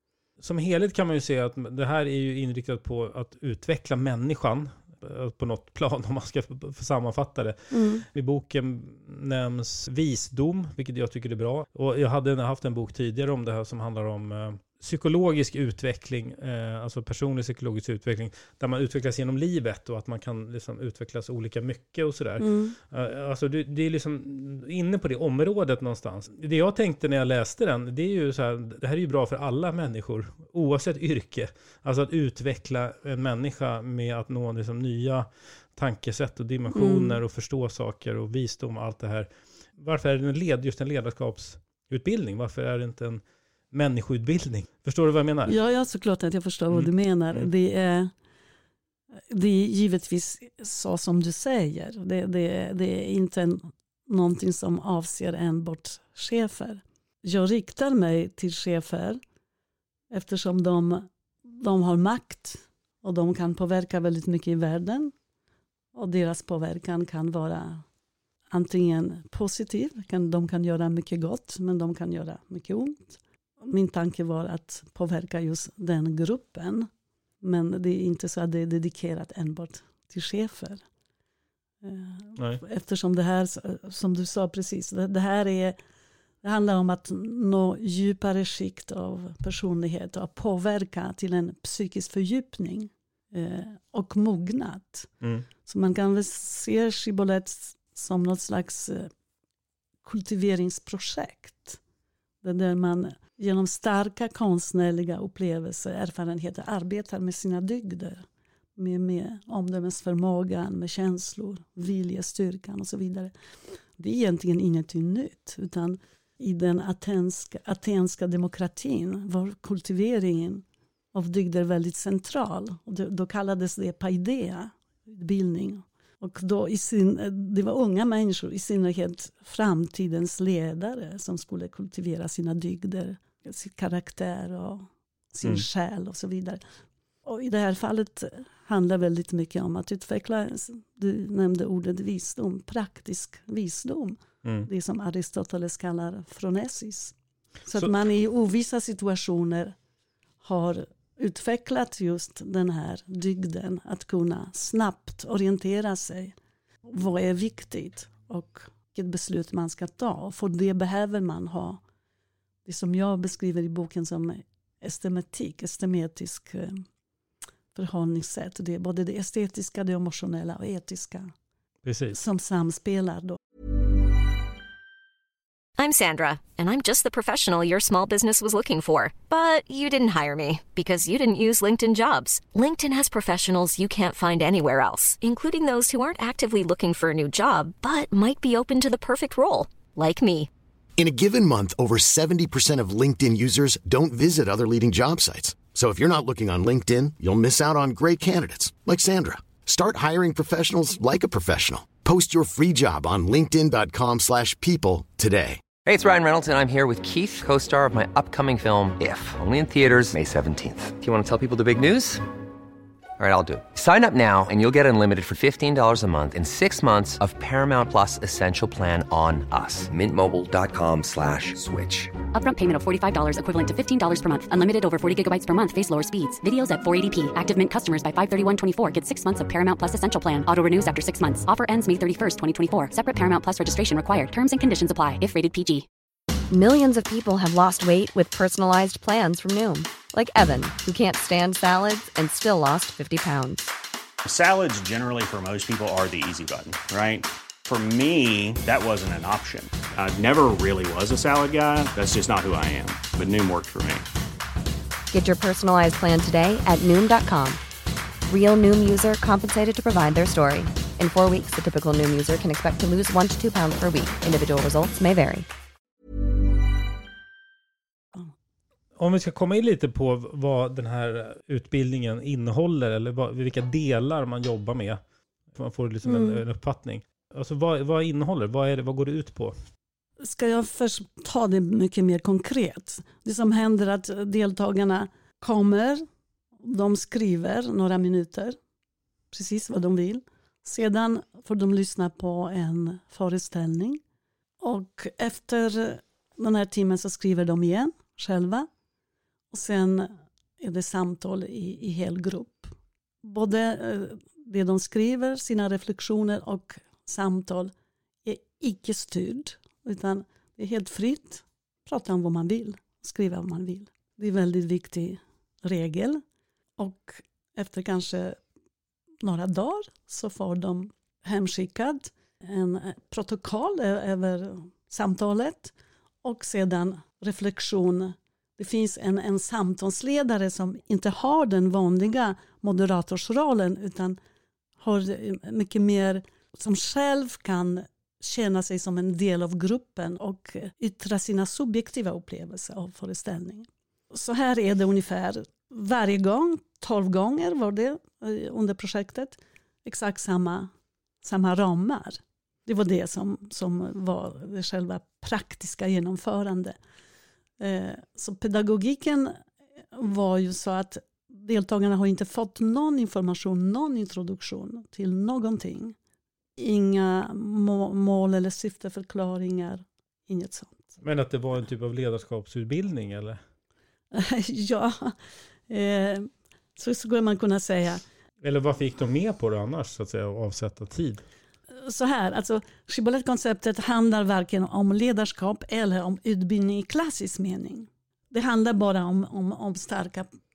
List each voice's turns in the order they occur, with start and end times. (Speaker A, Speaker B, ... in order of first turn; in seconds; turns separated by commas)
Speaker A: 0.4-45.6, Speaker B: 7.7-8.0, Speaker B: 22.4-22.8, Speaker B: 36.7-37.2, Speaker B: 45.5-48.1, Speaker A: 46.7-47.5, Speaker B: 49.3-59.2, Speaker B: 60.1-65.1, Speaker B: 65.9-67.8, Speaker B: 68.5-76.9, Speaker B: 77.4-80.8, Speaker B: 81.8-85.8, Speaker A: 82.3-82.6, Speaker B: 86.4-95.1, Speaker B: 95.7-99.1, Speaker B: 100.0-101.8, Speaker B: 102.4-108.2, Speaker B: 108.8-113.3, Speaker B: 114.0-136.6, Speaker B: 137.2-147.1, Speaker A: 144.4-144.7, Speaker B: 147.7-149.7, Speaker B: 150.4-156.3, Speaker B: 156.8-161.8, Speaker B: 162.6-166.8, Speaker B: 167.7-171.3, Speaker A: 171.8-172.2, Speaker B: 172.1-173.4, Speaker C: 175.8-190.5, Speaker D: 191.0-205.6, Speaker E: 205.8-212.2, Speaker E: 213.2-222.1, Speaker F: 222.3-235.8, Speaker G: 236.5-243.7, Speaker H: 244.2-254.1, Speaker G: 255.1-257.6, Speaker G: 258.3-265.5, Speaker A: 268.9-275.0, Speaker A: 275.5-279.5, Speaker B: 276.0-276.4, Speaker B: 280.2-286.0, Speaker B: 286.6-288.6, Speaker B: 289.3-294.0, Speaker B: 294.6-298.7, Speaker B: 299.5-307.7, Speaker B: 308.2-316.2, Speaker B: 316.8-318.4, Speaker B: 319.2-325.7, Speaker B: 326.2-334.2, Speaker B: 334.8-350.7, Speaker B: 351.2-356.8, Speaker B: 357.6-359.4, Speaker B: 359.9-365.9, Speaker B: 366.6-370.9, Speaker A: 371.0-373.4, Speaker B: 374.1-375.1, Speaker B: 375.7-378.0, Speaker A: 378.4-381.2, Speaker B: 381.7-390.3